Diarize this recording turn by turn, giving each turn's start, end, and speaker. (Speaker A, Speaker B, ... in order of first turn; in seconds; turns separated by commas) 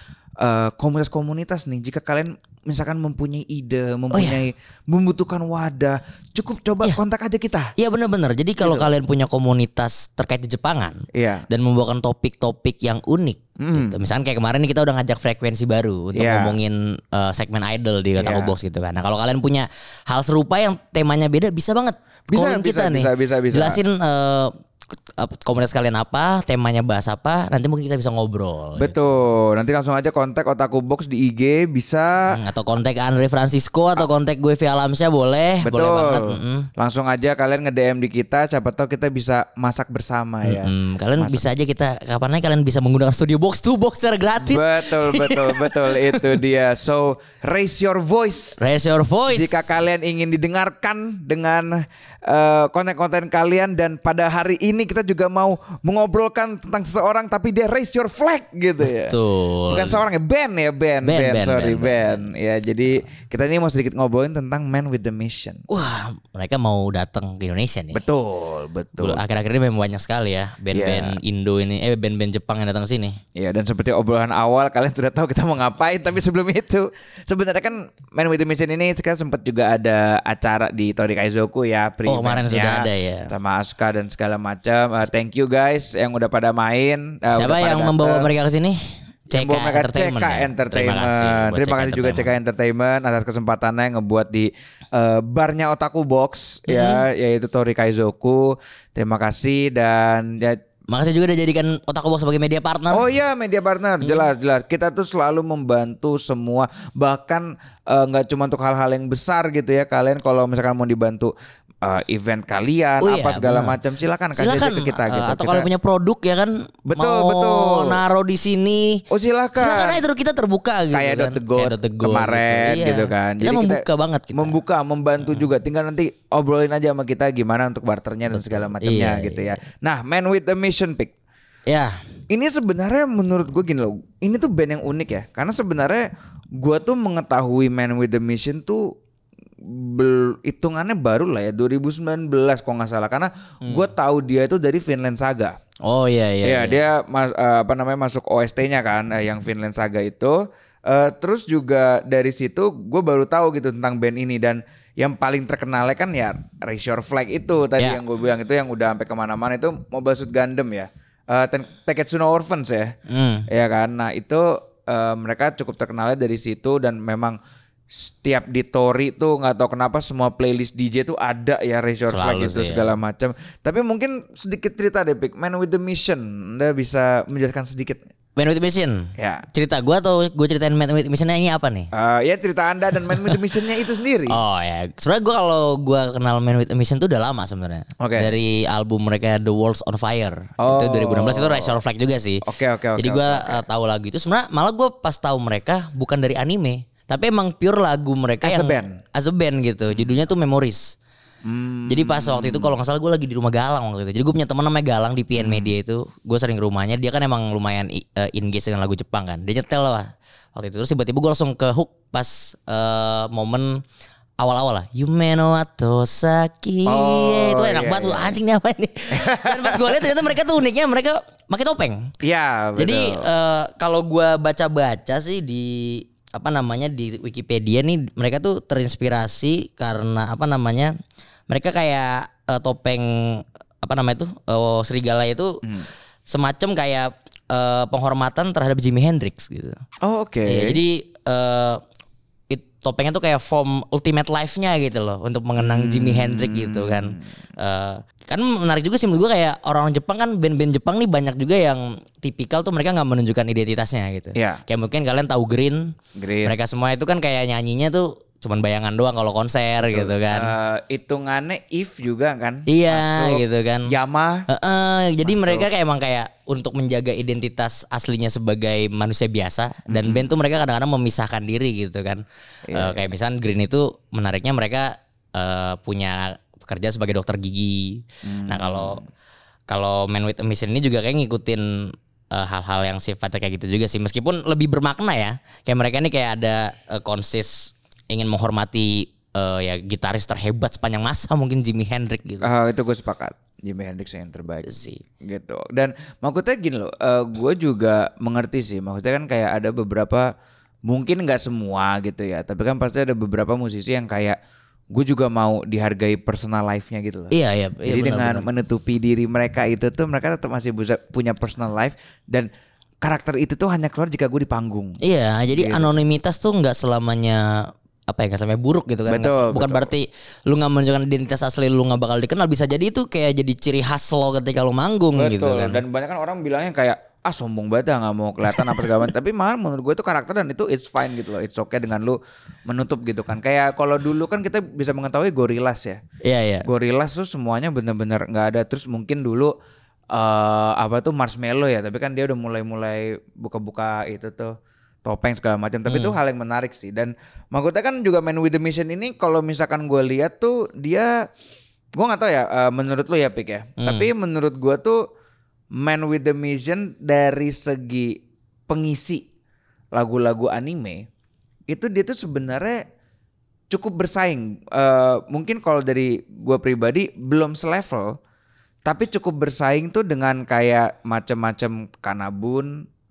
Speaker A: 0.4-7.7, Speaker B: 4.1-4.4, Speaker B: 7.8-11.0, Speaker A: 8.6-8.9, Speaker A: 11.1-11.5, Speaker B: 11.5-24.5, Speaker A: 13.6-14.0, Speaker A: 16.1-16.6, Speaker A: 18.2-18.6, Speaker A: 22.3-23.8, Speaker B: 25.2-29.0, Speaker A: 28.8-32.2, Speaker B: 32.3-36.7, Speaker A: 35.6-41.4, Speaker B: 40.4-46.3, Speaker A: 44.4-48.6, Speaker B: 48.6-49.8, Speaker A: 49.3-59.2, Speaker B: 58.8-60.0, Speaker A: 59.7-65.7, Speaker B: 61.0-62.3, Speaker B: 65.7-68.0, Speaker A: 67.9-69.2, Speaker B: 69.0-73.2, Speaker A: 70.7-71.2, Speaker A: 73.4-88.3, Speaker B: 82.0-83.3, Speaker B: 87.3-88.8, Speaker B: 89.3-92.3, Speaker A: 89.3-100.6, Speaker B: 96.7-97.0, Speaker B: 100.9-103.1, Speaker A: 102.9-115.7, Speaker B: 104.0-104.3, Speaker B: 113.0-113.8, Speaker B: 114.4-119.0, Speaker A: 116.9-118.0, Speaker A: 119.1-120.0, Speaker B: 119.5-124.6, Speaker A: 120.9-131.1, Speaker B: 128.3-129.5, Speaker B: 131.7-131.9, Speaker A: 132.3-136.1, Speaker A: 136.6-138.8, Speaker A: 139.7-145.6, Speaker B: 145.8-146.8, Speaker A: 146.4-162.9, Speaker B: 163.1-163.5, Speaker A: 163.5-167.4, Speaker A: 167.9-178.1, Speaker B: 172.1-172.9, Speaker B: 178.4-181.9, Speaker A: 179.2-179.4, Speaker A: 181.9-184.4, Speaker B: 183.0-183.5, Speaker B: 184.2-192.4, Speaker A: 188.0-188.3, Speaker A: 190.6-191.8, Speaker A: 192.4-193.6, Speaker B: 192.9-200.9, Speaker A: 198.4-199.0, Speaker A: 201.4-202.8, Speaker B: 201.9-213.8, Speaker A: 205.4-205.8, Speaker B: 214.4-222.1, Speaker A: 216.9-218.4, Speaker A: 219.1-220.1, Speaker A: 222.2-223.3, Speaker B: 222.8-230.9, Speaker B: 231.5-235.6, Speaker B: 236.3-239.8, Speaker A: 240.0-240.8, Speaker B: 240.4-241.8, Speaker B: 242.5-260.6, Speaker A: 245.6-247.2, Speaker A: 254.3-254.6, Speaker A: 256.1-256.6, Speaker A: 259.8-264.4, Speaker B: 262.7-263.9, Speaker B: 264.5-279.0, Speaker A: 265.2-265.7, Speaker A: 269.9-270.3, Speaker A: 272.7-273.1, Speaker A: 278.2-279.0, Speaker B: 279.7-292.5, Speaker A: 292.4-300.3, Speaker B: 294.6-295.0, Speaker A: 300.9-304.4, Speaker A: 304.9-312.5, Speaker B: 307.3-308.5, Speaker A: 313.0-315.0, Speaker B: 315.0-317.4, Speaker A: 315.5-315.9, Speaker B: 318.1-325.8, Speaker A: 319.1-319.9, Speaker A: 325.1-336.0, Speaker B: 328.5-328.9, Speaker B: 336.2-336.7, Speaker A: 336.6-339.5, Speaker A: 340.1-351.1, Speaker B: 345.9-346.2, Speaker A: 351.9-355.0, Speaker B: 353.8-354.1, Speaker A: 355.8-358.2, Speaker A: 358.7-359.2, Speaker A: 359.9-361.0, Speaker A: 361.7-362.8, Speaker A: 363.7-368.2, Speaker A: 368.9-372.8